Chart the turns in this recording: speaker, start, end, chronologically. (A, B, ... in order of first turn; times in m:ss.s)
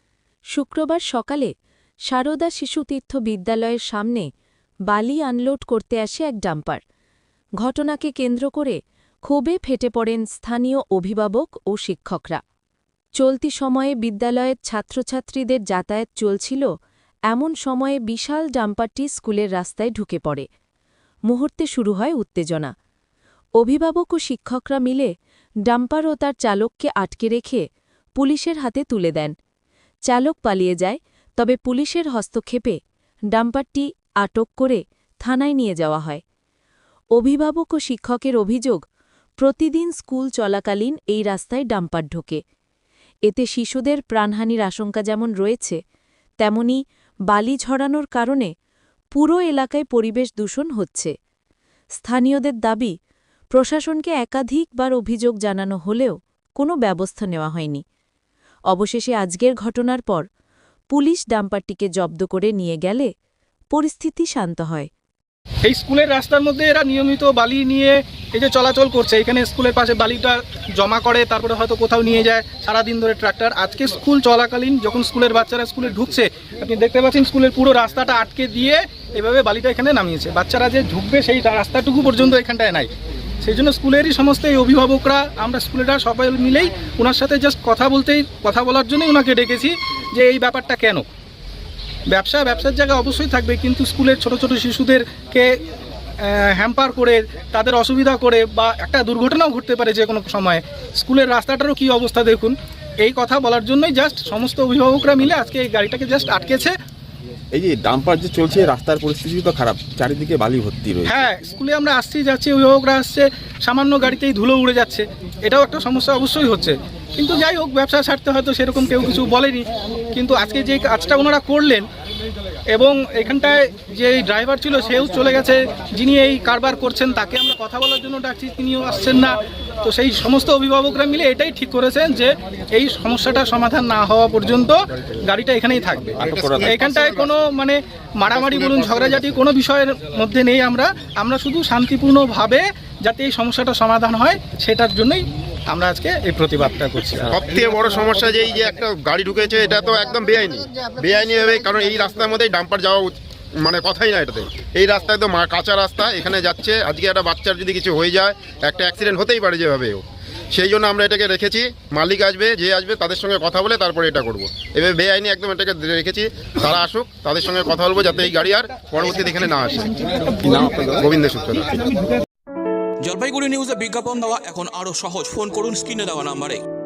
0:00.5-0:01.5 A
0:02.1-0:04.3 A
0:04.9-0:06.8 A
0:07.6-0:12.4 A
0:13.2-0:16.7 A
0:17.3-0:20.5 A
0:21.3-0:22.7 A
0:23.6-0:25.1 A
0:25.7-0:27.6 A
0:28.2-0:29.4 A
0:30.1-0:32.8 A
0:33.3-0:36.2 A
0:37.2-0:38.8 A
0:39.4-0:42.4 A
0:43.3-0:45.8 A
0:46.4-0:48.5 A
0:49.2-0:51.1 A
0:52.0-0:52.9 A
0:53.5-0:57.8 A
0:58.7-1:00.2 A
1:00.9-1:03.1 A
1:03.7-1:04.9 A
1:05.7-1:22.9 B
1:23.4-1:31.0 B
1:32.1-1:35.5 B
1:36.2-1:46.7 B
1:47.5-1:51.2 C
1:51.1-2:01.9 B
2:02.8-2:27.3 B
2:16.2-2:16.8 C
2:16.2-2:17.3 D
2:18.3-2:19.2 D
2:27.3-2:49.9 D
2:50.4-2:51.0 C
2:50.6-2:51.9 D
2:53.0-2:56.6 E